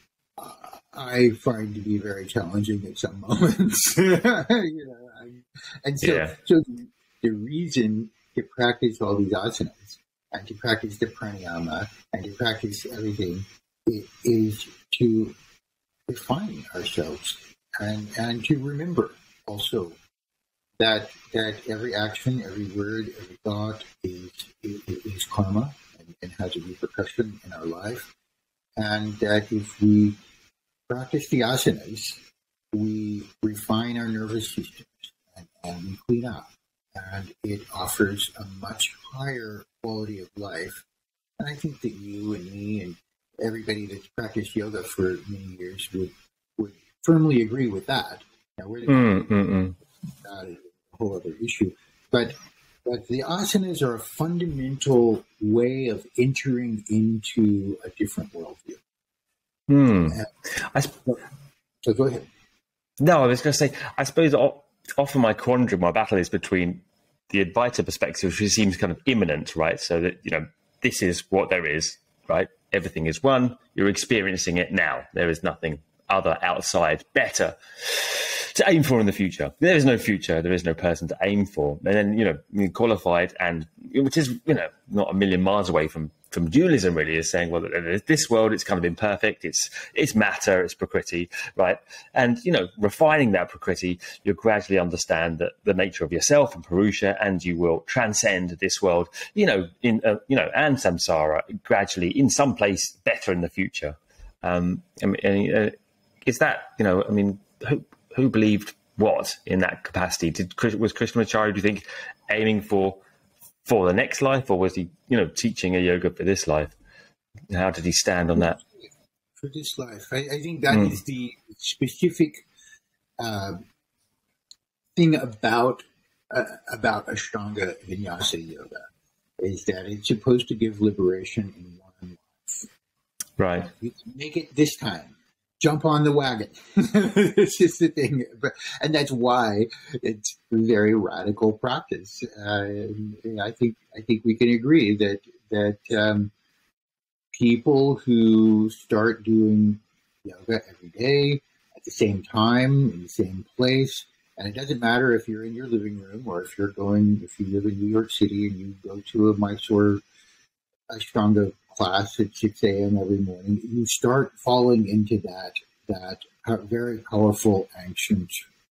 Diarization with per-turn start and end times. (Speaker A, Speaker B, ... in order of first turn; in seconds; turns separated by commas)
Speaker A: 0.4-15.3, Speaker B: 6.0-6.3, Speaker A: 16.1-19.9, Speaker A: 20.8-28.1, Speaker A: 28.8-30.1, Speaker A: 30.9-32.2, Speaker A: 32.7-40.8, Speaker A: 41.4-49.3, Speaker B: 48.9-49.8, Speaker A: 50.2-52.3, Speaker A: 52.9-58.8, Speaker B: 59.7-60.9, Speaker A: 60.9-61.2, Speaker A: 61.8-62.2, Speaker B: 63.0-113.0, Speaker B: 113.6-116.8, Speaker B: 117.5-118.6, Speaker A: 118.3-122.4, Speaker B: 120.7-121.0, Speaker A: 123.2-123.6, Speaker A: 125.0-128.8, Speaker A: 129.4-132.7, Speaker B: 133.4-133.7, Speaker A: 133.6-146.3, Speaker A: 147.3-160.0, Speaker A: 160.9-168.4